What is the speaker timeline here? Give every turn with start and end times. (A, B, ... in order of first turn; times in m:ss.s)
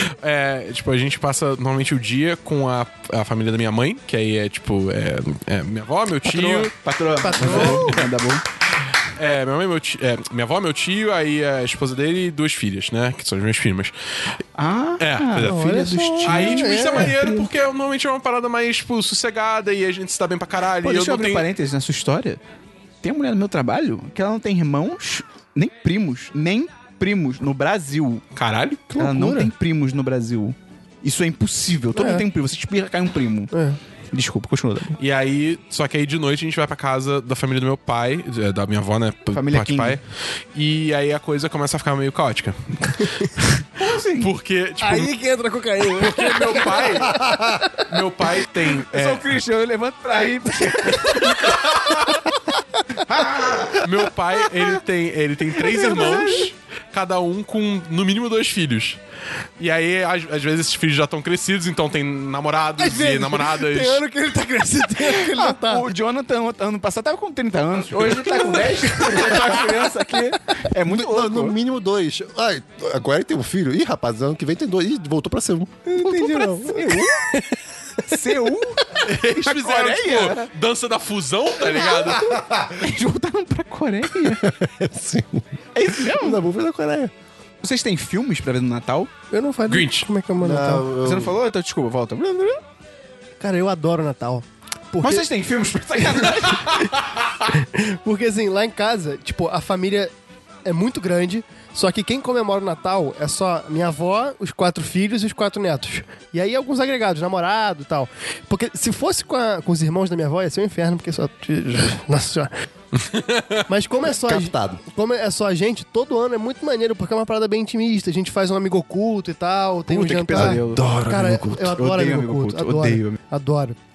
0:00.2-0:06.7 A
0:06.2-0:08.4 B
0:07.2-0:08.0 C
0:07.4-0:08.0 A
0:09.2-0:13.9 A
0:14.6-0:17.4 B
0:15.0-0:15.6 A
0:15.4-0:17.3 C
0:16.2-0:21.5 A
0:20.8-0:22.4 B
0:23.0-0:28.2 B
0:28.3-0:28.9 A
0:28.9-0:29.5 C
0:29.0-0:33.5 B
0:31.9-0:32.2 C
0:33.5-0:33.8 C
0:34.1-0:35.0 B
0:35.0-0:40.0 A
0:39.3-0:40.0 B
0:40.5-0:43.6 A
0:43.8-0:44.3 B
0:44.2-0:45.1 A
0:44.8-0:47.8 C
0:45.9-0:49.2 A
0:47.1-0:47.6 D
0:48.9-0:51.8 B
0:51.0-0:51.3 C
0:51.4-0:52.1 A
0:53.0-0:53.8 B
0:53.8-0:59.0 A
0:55.8-0:56.3 B
0:55.8-0:56.4 C
0:59.6-1:04.0 A
1:02.8-1:05.9 C
1:05.0-1:11.5 B
1:08.2-1:09.8 C
1:10.8-1:15.9 D
1:15.9-1:17.4 C
1:16.0-1:17.3 B
1:18.1-1:20.5 B
1:19.0-1:22.3 A
1:21.7-1:22.0 B
1:22.2-1:22.9 D
1:22.8-1:24.5 B
1:24.2-1:27.1 D
1:25.8-1:26.4 B
1:27.6-1:29.1 B
1:29.3-1:30.9 C
1:29.7-1:30.1 A
1:30.4-1:31.4 D
1:31.0-1:32.6 B
1:33.4-1:35.3 C
1:35.0-1:36.9 B
1:37.5-1:40.1 C
1:40.6-1:52.5 C
1:53.0-1:53.6 A
1:53.7-2:03.8 C
1:54.2-1:54.8 D
1:59.9-2:00.9 B
2:00.3-2:01.7 D
2:01.6-2:03.2 B